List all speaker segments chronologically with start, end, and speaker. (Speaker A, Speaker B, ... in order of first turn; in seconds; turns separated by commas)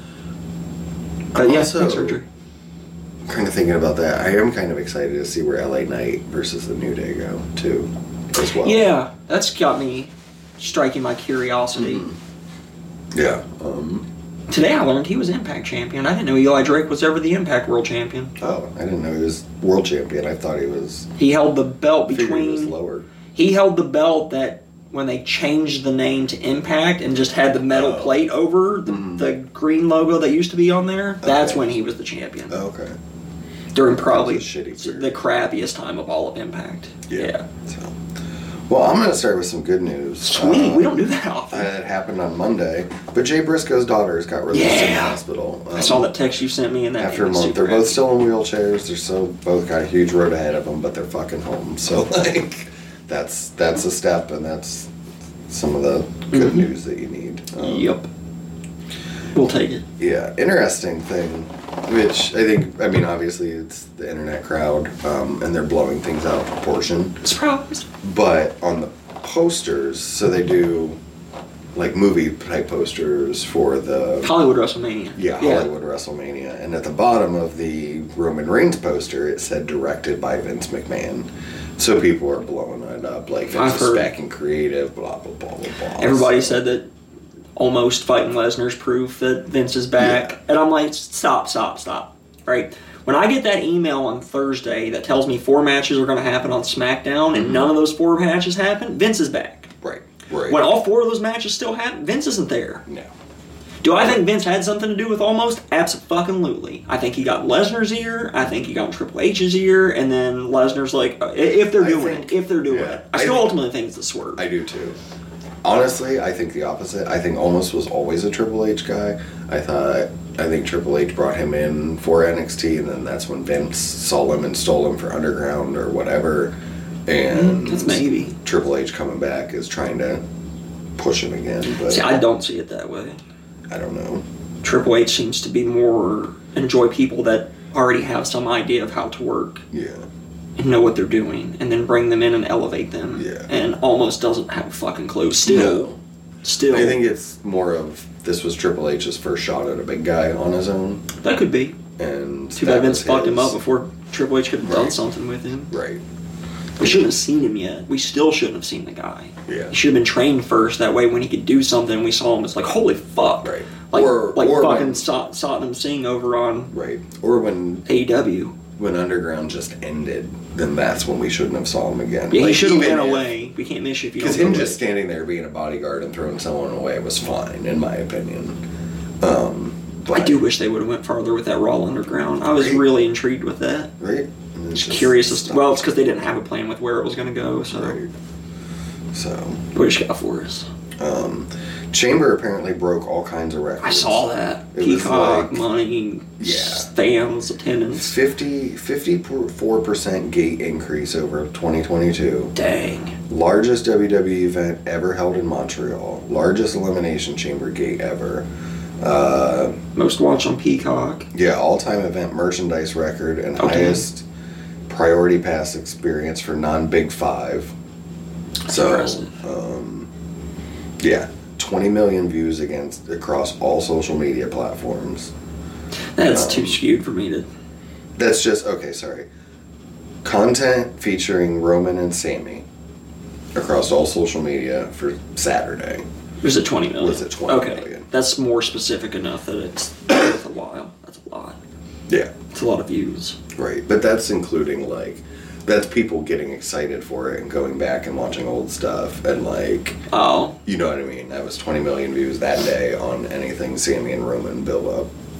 Speaker A: 1.3-2.2, Speaker B: 1.4-2.2, Speaker A: 3.2-8.9, Speaker B: 8.6-12.1, Speaker A: 11.7-12.2, Speaker A: 13.1-14.1, Speaker B: 14.5-18.3, Speaker A: 18.4-21.1, Speaker B: 21.2-22.7, Speaker A: 22.1-23.1, Speaker B: 23.3-32.6, Speaker A: 27.7-28.2, Speaker A: 28.9-29.3, Speaker A: 31.2-31.7, Speaker A: 32.5-33.0, Speaker B: 33.7-37.5, Speaker A: 33.9-35.3, Speaker A: 37.1-38.0, Speaker A: 38.7-40.9, Speaker B: 40.2-41.7, Speaker A: 41.5-46.1, Speaker B: 44.5-45.2, Speaker B: 45.7-48.0, Speaker A: 47.0-54.9, Speaker A: 55.5-57.9, Speaker B: 56.3-56.7, Speaker B: 57.6-58.1, Speaker B: 59.3-59.8, Speaker A: 60.0-67.2, Speaker B: 67.2-67.8, Speaker A: 68.0-71.0, Speaker A: 71.7-74.3, Speaker B: 74.2-75.7, Speaker A: 75.2-86.6, Speaker B: 83.5-84.1, Speaker B: 86.0-86.9, Speaker B: 87.5-99.7, Speaker A: 90.0-90.3, Speaker A: 97.3-97.7, Speaker A: 99.8-100.6, Speaker B: 100.5-102.8, Speaker A: 102.8-103.1, Speaker B: 103.8-114.4, Speaker A: 111.7-113.5, Speaker A: 114.4-115.0, Speaker A: 115.6-126.5, Speaker A: 127.1-130.2, Speaker B: 127.3-128.4, Speaker A: 130.9-132.1, Speaker B: 131.8-133.2, Speaker A: 133.7-134.2, Speaker B: 134.6-139.6, Speaker A: 139.7-140.1, Speaker B: 140.6-145.9, Speaker A: 143.2-143.5, Speaker A: 145.4-146.0, Speaker B: 146.4-147.0, Speaker A: 146.7-151.0, Speaker B: 151.2-151.8, Speaker A: 152.0-153.6, Speaker B: 152.6-155.7, Speaker A: 154.6-155.0, Speaker A: 155.7-156.0, Speaker B: 156.8-166.7, Speaker A: 159.5-159.7, Speaker A: 163.4-165.0, Speaker A: 166.7-167.9, Speaker B: 167.8-168.6, Speaker A: 168.8-173.3, Speaker B: 172.3-174.8, Speaker A: 174.2-178.6, Speaker A: 179.2-180.4, Speaker B: 180.1-183.9, Speaker A: 182.5-182.8, Speaker A: 184.0-185.8, Speaker B: 184.7-188.0, Speaker A: 187.7-188.1, Speaker A: 189.1-189.6, Speaker B: 189.7-190.7, Speaker A: 191.0-195.6, Speaker B: 193.8-198.2, Speaker A: 196.4-196.9, Speaker A: 197.9-202.5, Speaker B: 202.5-203.2, Speaker A: 203.3-208.4, Speaker A: 209.0-209.8, Speaker B: 209.9-211.3, Speaker A: 211.3-214.2, Speaker B: 213.6-214.0, Speaker A: 214.9-217.7, Speaker B: 218.7-219.3, Speaker A: 218.7-220.1, Speaker A: 221.0-225.3, Speaker B: 226.2-227.5, Speaker A: 226.3-226.8, Speaker A: 228.2-229.3, Speaker A: 230.2-232.7, Speaker A: 233.5-236.1, Speaker B: 236.4-241.6, Speaker A: 236.9-238.1, Speaker B: 242.5-243.4, Speaker A: 243.5-250.0, Speaker B: 250.1-250.6, Speaker A: 250.6-255.1